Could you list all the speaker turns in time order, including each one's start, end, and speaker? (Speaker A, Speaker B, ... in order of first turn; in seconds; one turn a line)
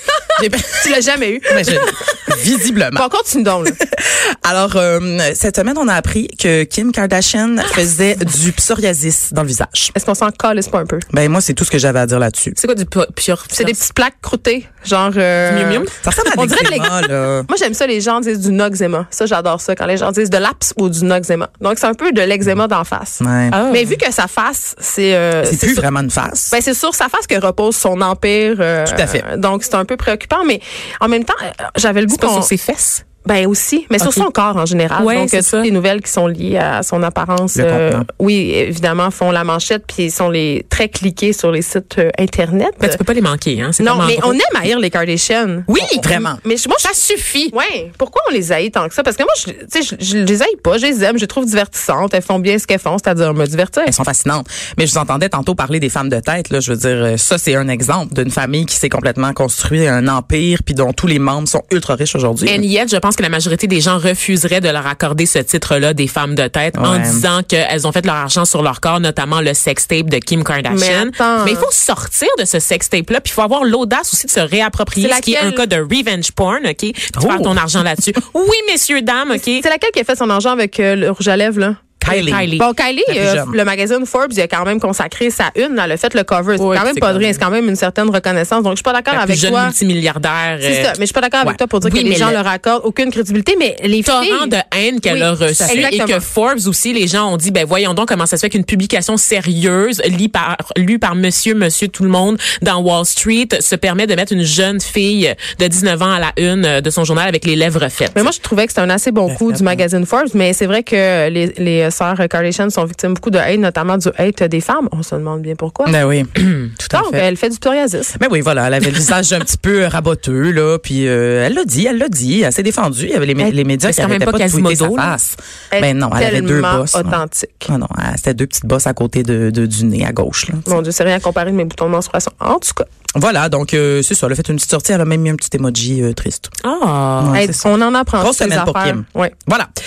Speaker A: 0.1-2.4
Speaker B: 0.4-3.0
Speaker A: 2.9-3.8
Speaker B: 3.7-9.9
Speaker A: 9.9-11.1
Speaker B: 11.1-12.6
Speaker C: 12.6-13.8
Speaker A: 13.5-25.9
Speaker C: 15.5-16.0
Speaker B: 16.0-17.5
Speaker B: 23.2-23.6
Speaker C: 23.5-24.0
Speaker B: 25.4-26.6
Speaker A: 26.5-32.5
Speaker B: 28.9-29.3
Speaker C: 32.1-33.0
Speaker A: 33.2-43.0
Speaker C: 34.0-34.3
Speaker C: 35.0-35.7
Speaker B: 37.5-38.1
Speaker C: 42.8-44.4
Speaker A: 43.8-47.0
Speaker C: 45.7-46.3
Speaker B: 45.8-46.4
Speaker C: 46.8-47.5
Speaker A: 47.5-54.0
Speaker B: 53.9-62.6
Speaker C: 62.5-79.7
Speaker B: 66.8-67.3
Speaker A: 70.7-71.7
Speaker A: 75.0-75.6
Speaker B: 77.2-77.6
Speaker A: 79.3-82.0
Speaker B: 82.0-82.5
Speaker C: 82.0-82.7
Speaker A: 82.6-89.8
Speaker B: 83.1-83.6
Speaker C: 86.6-87.4
Speaker C: 89.1-91.0
Speaker A: 90.6-94.5
Speaker C: 91.7-92.4
Speaker C: 94.0-108.3
Speaker A: 95.1-96.2
Speaker B: 95.5-95.9
Speaker A: 108.1-116.0
Speaker B: 109.3-109.8
Speaker B: 115.8-117.2
Speaker A: 116.9-118.2
Speaker B: 118.2-130.8
Speaker C: 123.4-125.2
Speaker A: 125.7-127.7
Speaker A: 130.7-132.9
Speaker B: 133.2-136.5
Speaker C: 136.6-137.4
Speaker B: 137.2-139.7
Speaker A: 137.3-139.3